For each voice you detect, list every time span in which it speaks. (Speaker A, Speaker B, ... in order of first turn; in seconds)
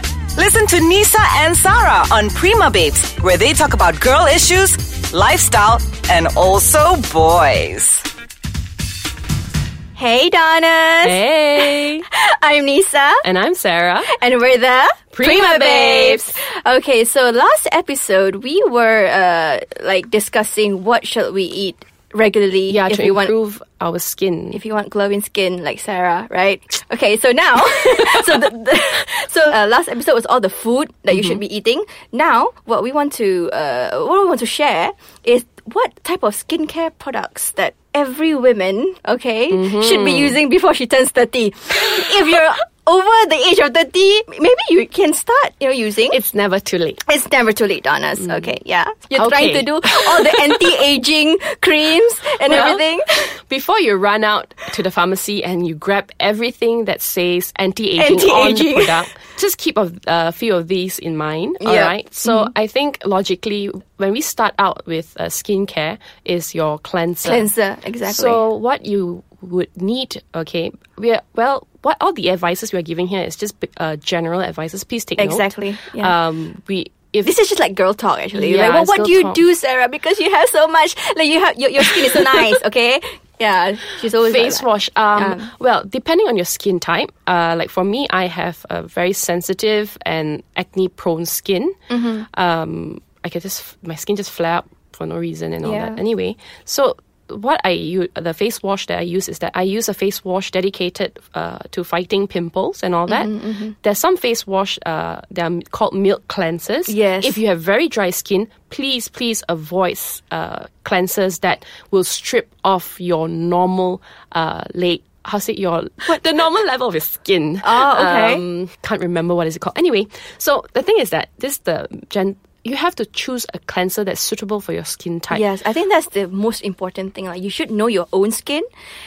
Speaker A: 0.3-8.0
Speaker B: 9.9-11.2, 12.1-13.2, 14.1-23.3, 24.5-46.2, 47.0-53.4, 58.0-59.0, 61.6-62.5, 67.2-68.5, 75.2-76.2, 77.2-85.5, 91.9-92.3, 95.6-96.0, 103.1-103.8, 106.9-107.4, 117.6-118.4, 125.3-128.7
Speaker C: 11.0-12.1, 13.2-14.1, 15.1-16.4, 22.7-24.6, 31.1-31.4, 39.5-40.4, 46.1-47.0, 49.1-50.8, 52.5-52.9, 53.5-67.5, 68.1-77.3, 78.3-79.4, 81.8-82.5, 84.2-91.8, 92.3-125.5